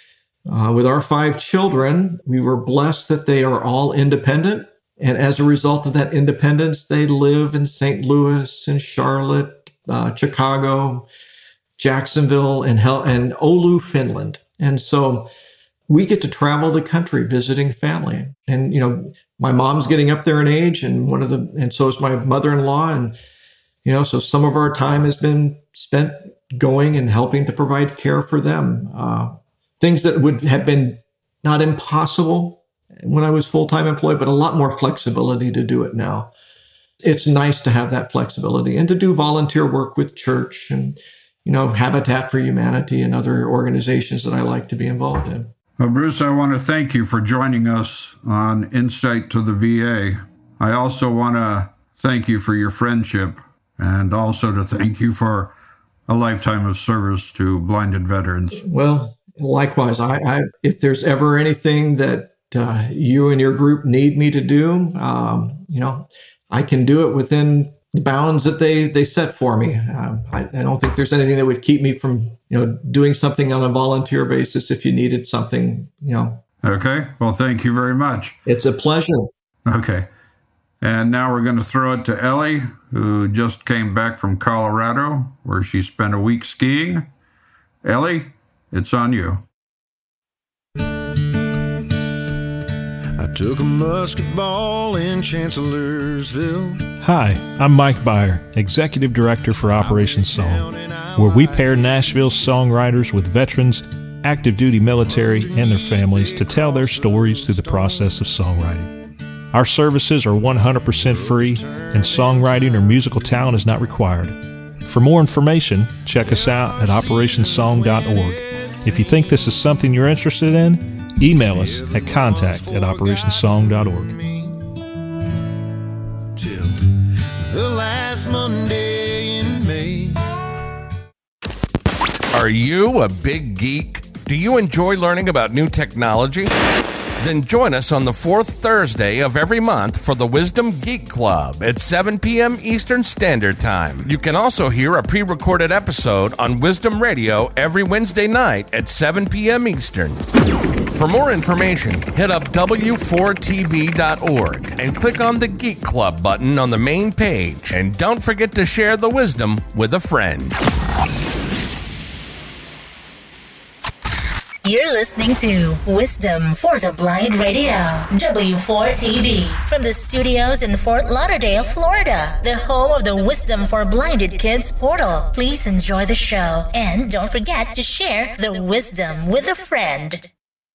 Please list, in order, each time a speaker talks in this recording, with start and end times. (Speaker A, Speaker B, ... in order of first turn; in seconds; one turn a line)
Speaker A: 0.5-11.1
Speaker A: 11.8-15.3
Speaker A: 15.9-23.1
Speaker A: 23.8-36.3
Speaker A: 37.0-45.5
Speaker B: 45.8-55.5
Speaker B: 56.1-58.6
Speaker A: 58.6-76.4
Speaker B: 76.6-78.4
Speaker A: 78.5-79.3
Speaker B: 79.7-80.1
Speaker B: 80.8-87.1
Speaker B: 87.8-89.4
Speaker C: 93.2-96.9
Speaker D: 97.0-108.9
Speaker C: 99.6-102.5
Speaker C: 105.0-108.2
Speaker D: 109.5-124.1
Speaker C: 111.0-113.3
Speaker C: 116.2-119.7
Speaker C: 121.3-124.6
Speaker C: 126.3-130.2
Speaker E: 132.3-136.5
Speaker E: 137.2-150.2
Speaker E: 150.9-160.6
Speaker F: 164.6-180.2